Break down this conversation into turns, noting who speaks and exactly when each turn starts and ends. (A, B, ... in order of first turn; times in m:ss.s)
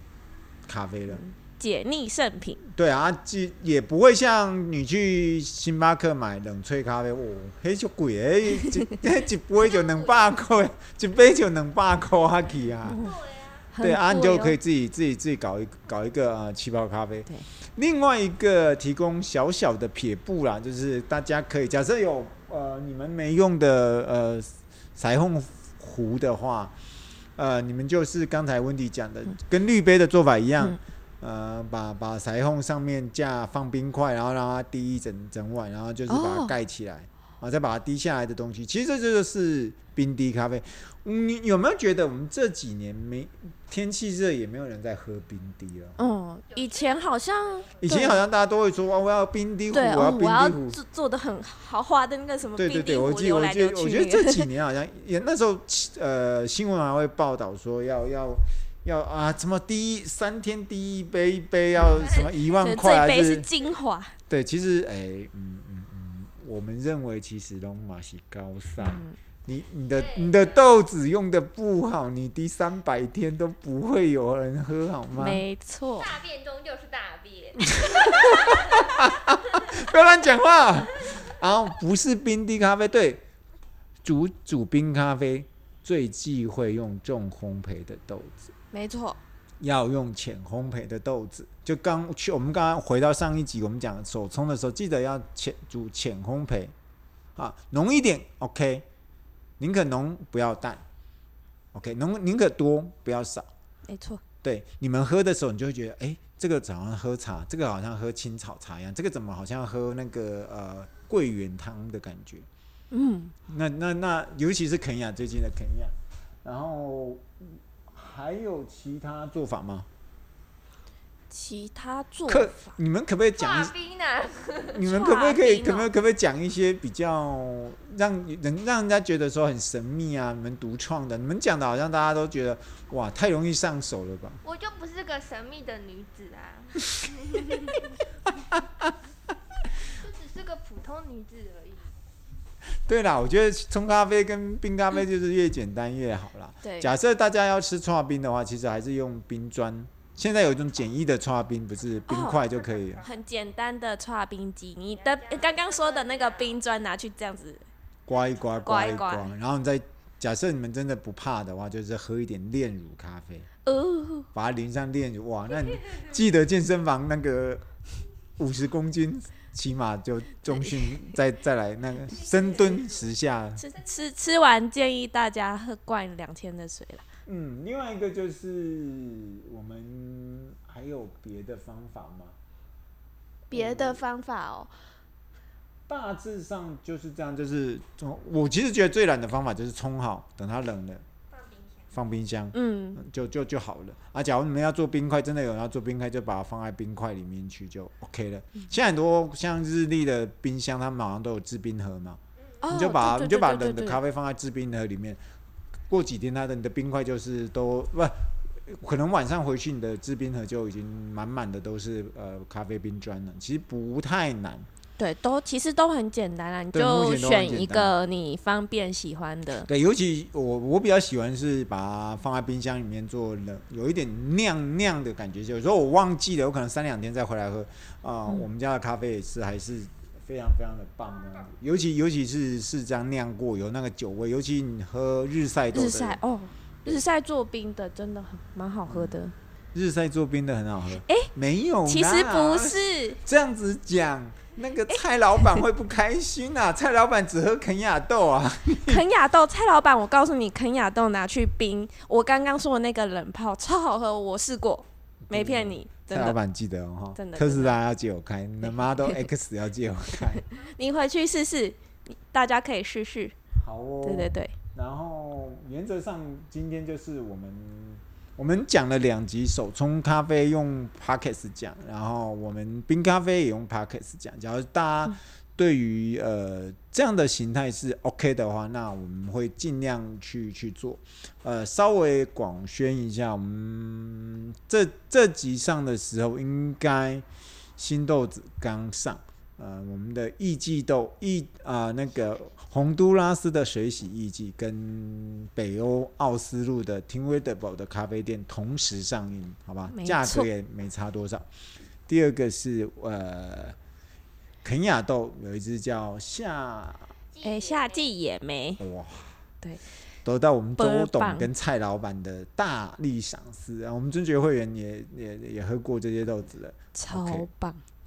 0:00.7-0:01.2 A
0:01.1-0:02.6 B
0:02.6-0:13.1 A
0:09.6-0:10.3 C
0:12.8-0:13.2 B
0:13.0-0:13.7 C
0:13.7-0:14.6 B
0:13.8-0:26.8 A
0:27.4-0:46.0 A
0:36.1-0:36.6 B
0:46.0-0:48.2 B
0:46.6-0:47.7 C
0:47.8-0:50.8 A
0:49.7-0:54.5 B
0:52.6-1:03.5 A
1:02.1-1:04.2 B
1:04.3-1:15.4 A
1:08.8-1:09.2 B
1:09.9-1:10.5 C
1:15.2-1:16.1 B
1:16.0-1:18.9 C
1:17.8-1:23.2 A
1:24.0-1:28.5 A
1:28.7-1:29.2 B
1:29.6-1:36.7 A
1:37.4-1:38.8 A
1:39.6-1:40.8 A
1:41.7-1:43.5 A
1:43.9-1:44.2 B
1:44.4-1:52.5 A
1:52.9-1:53.3 B
1:53.5-1:55.9 A
1:56.4-1:59.9 A
2:01.3-2:02.7 B
2:02.3-2:03.7 A
2:03.4-2:04.8 C
2:04.7-2:14.4 A
2:04.8-2:05.9 B
2:14.4-2:17.7 C
2:18.5-2:18.9 A
2:19.9-2:22.0 C
2:22.9-2:33.1 A
2:26.6-2:26.9 B
2:32.1-2:37.7 B
2:35.0-2:36.5 C
2:38.1-2:43.5 A
2:38.6-2:39.3 B
2:43.7-2:44.3 B
2:44.3-2:47.6 A
2:48.4-2:53.7 A
2:50.7-2:51.1 B
2:52.3-2:52.6 C
2:53.6-2:57.0 B
2:57.3-3:02.4 A
3:03.5-3:04.7 B
3:03.5-3:04.0 A
3:05.9-3:11.0 A
3:11.3-3:11.6 C
3:11.9-3:25.2 A
3:12.5-3:13.0 B
3:22.6-3:24.0 B
3:25.9-3:34.7 A
3:35.0-3:39.7 B
3:36.7-3:38.0 A
3:39.7-3:56.2 A
3:55.7-3:59.3 B
3:58.9-3:59.2 A
3:59.7-4:09.0 A
4:01.0-4:01.3 B
4:01.9-4:03.2 B
4:04.9-4:05.5 B
4:08.9-4:16.4 B
4:15.3-4:20.4 A
4:17.2-4:17.8 B
4:18.6-4:19.3 B
4:20.4-4:23.4 B
4:23.6-4:47.2 A
4:24.0-4:24.5 B
4:47.8-5:01.5 A
4:59.9-5:00.5 B
5:02.1-5:03.8 A
5:04.6-5:07.1 A
5:07.4-5:07.9 C
5:07.4-5:08.8 B
5:08.8-5:09.4 A
5:10.2-5:17.5 A
5:10.8-5:11.5 B
5:16.9-5:17.8 B